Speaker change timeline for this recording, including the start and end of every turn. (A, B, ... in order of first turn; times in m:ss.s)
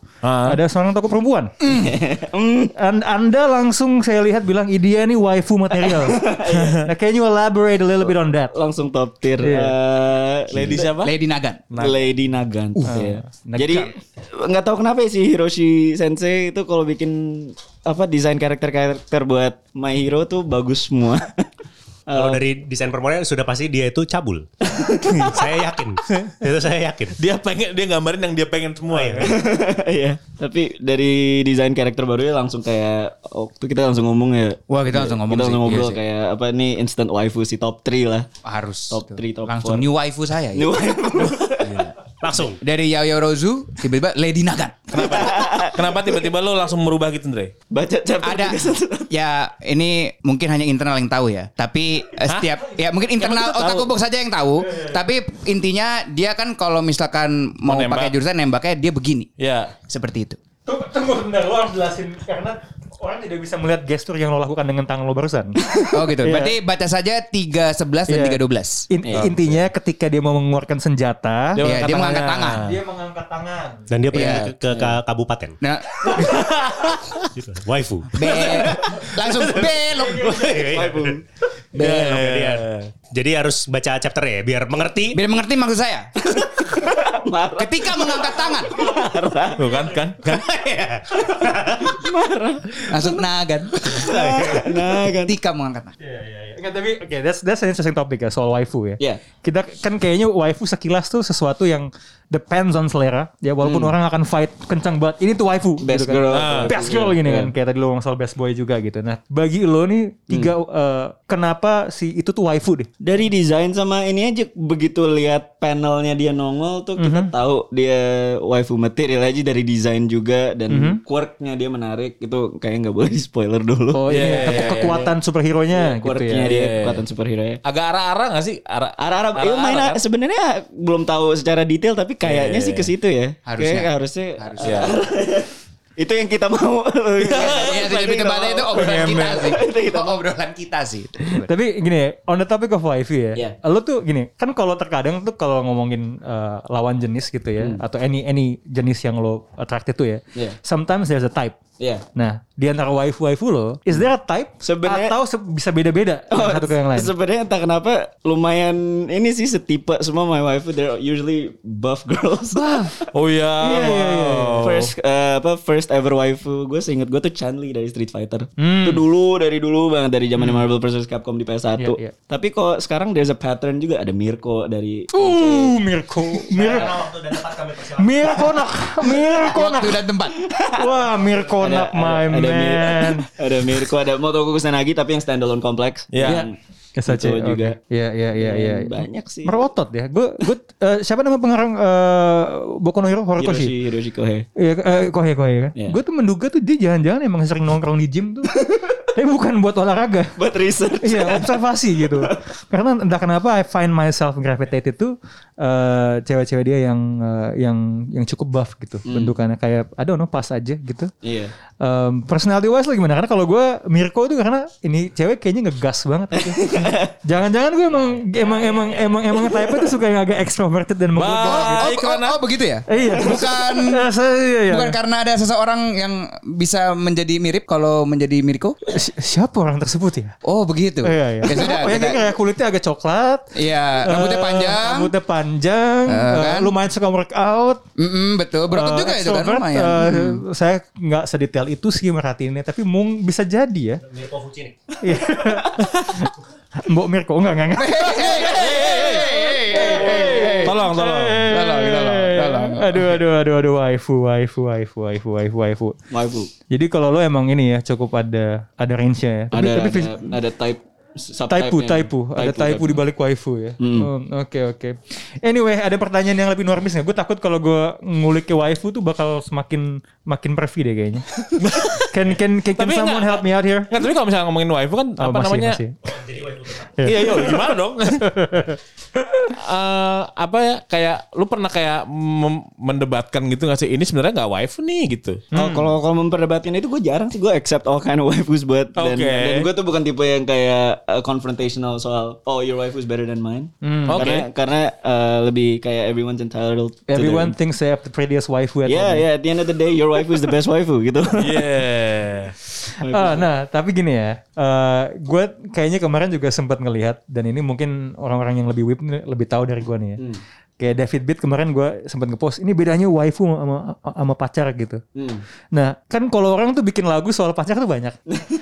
0:00.2-0:00.6 A
0:00.4-0:01.9 B
0:01.6-0:02.7 C
0:02.8-0:08.5 B
0:05.8-0:06.9 C
0:08.0-0:10.9 C
0:09.4-0:09.7 B
0:10.5-0:11.1 A
0:10.7-0:11.6 D
0:11.7-0:12.0 B
0:11.8-0:21.5 C
0:12.8-0:13.9 B
0:22.1-0:22.4 C
0:22.1-0:24.5 E
0:24.7-0:25.3 C
0:25.2-0:27.2 E
0:27.2-0:29.4 A
0:28.9-0:29.3 E
0:29.2-0:38.3 C
0:34.7-0:36.0 D
0:38.4-0:40.8 D
0:38.9-0:39.9 C
0:40.5-0:41.9 C
0:41.6-0:41.9 A
0:42.2-0:42.6 E
0:42.6-0:45.2 D
0:44.9-0:47.5 A
0:45.0-0:46.3 C
0:47.7-0:49.1 C
0:48.2-0:59.3 D
0:52.3-0:52.6 A
0:57.6-0:58.1 A
0:59.4-0:59.7 A
0:59.9-1:00.4 D
1:00.7-1:05.6 B
1:05.9-1:08.9 D
1:06.2-1:06.6 B
1:08.1-1:13.9 B
1:09.0-1:09.4 C
1:11.6-1:12.8 A
1:11.6-1:12.7 D
1:13.9-1:15.6 E
1:14.1-1:14.5 D
1:14.7-1:15.0 C
1:15.6-1:16.4 D
1:16.2-1:17.3 A
1:17.3-1:21.2 E
1:18.1-1:20.4 D
1:20.5-1:21.2 C
1:21.8-1:22.9 A
1:21.8-1:25.2 E
1:25.1-1:26.1 D
1:26.2-1:29.8 C
1:27.6-1:28.8 D
1:29.6-1:30.5 A
1:30.2-1:31.9 E
1:31.8-1:33.2 C
1:32.9-1:35.9 D
1:33.8-1:35.4 C
1:33.9-1:34.7 E
1:36.0-1:52.9 B
1:43.6-1:43.9 C
1:45.8-1:47.5 C
1:46.3-1:46.8 A
1:53.0-2:05.1 C
1:57.0-1:57.3 B
2:00.7-2:01.0 B
2:03.9-2:06.5 B
2:04.1-2:05.0 A
2:05.7-2:07.6 C
2:06.4-2:07.0 A
2:07.6-2:10.0 A
2:09.0-2:20.2 C
2:12.2-2:12.9 A
2:13.5-2:15.0 D
2:14.6-2:15.0 A
2:17.2-2:17.9 A
2:17.3-2:21.5 D
2:18.7-2:19.3 B
2:21.4-2:31.6 B
2:31.8-2:32.0 C
2:32.2-2:37.1 B
2:34.6-2:35.2 C
2:36.3-2:43.1 C
2:42.5-2:43.0 B
2:43.1-2:44.9 A
2:43.6-2:44.7 B
2:44.6-2:55.8 C
2:48.6-2:49.0 B
2:50.4-2:50.6 B
2:51.8-2:52.1 B
2:55.1-2:57.1 B
2:56.5-2:58.6 E
2:58.0-3:00.1 B
2:59.4-3:00.4 D
3:00.3-3:00.9 C
3:00.7-3:03.3 B
3:01.5-3:06.6 C
3:06.1-3:06.5 A
3:06.2-3:13.7 B
3:07.1-3:07.8 C
3:08.4-3:09.6 C
3:13.4-3:14.5 C
3:14.6-3:18.6 B
3:18.6-3:18.9 C
3:19.1-3:20.4 B
3:20.4-3:22.4 C
3:21.0-3:31.1 B
3:29.1-3:29.3 C
3:31.2-3:31.5 C
3:31.8-3:41.9 B
3:36.4-3:37.1 C
3:38.3-3:39.9 C
3:41.2-3:42.4 A
3:41.4-3:44.1 D
3:42.9-3:45.0 B
3:44.7-3:48.8 D
3:48.9-3:50.4 B
3:50.4-3:52.2 D
3:51.0-3:57.8 B
3:53.6-3:55.1 D
3:56.1-3:56.7 D
3:58.0-4:00.4 D
3:58.7-4:04.0 B
4:04.0-4:04.8 E
4:05.0-4:06.3 B
4:06.8-4:16.0 B
4:07.7-4:10.8 D
4:08.3-4:09.6 A
4:10.6-4:11.4 A
4:11.4-4:13.2 D
4:16.1-4:16.5 C
4:16.7-4:20.3 B
4:19.5-4:23.0 C
4:21.5-4:33.9 B
4:23.8-4:24.1 C
4:31.6-4:32.1 A
4:32.8-4:35.8 A
4:35.2-4:36.0 B
4:36.0-4:37.0 E
4:37.0-4:37.6 B
4:37.0-4:38.3 A
4:38.2-4:38.8 B
4:39.5-4:45.4 A
4:45.5-4:45.9 B
4:45.5-4:57.6 C
4:49.0-4:49.7 A
4:53.8-4:54.3 B
4:54.1-4:54.5 A
4:57.1-4:59.3 B
4:58.9-5:01.7 C
5:01.3-5:02.6 A
5:03.0-5:03.5 C
5:03.1-5:10.2 B
5:10.8-5:15.0 B
5:15.2-5:15.4 C
5:15.7-5:18.2 B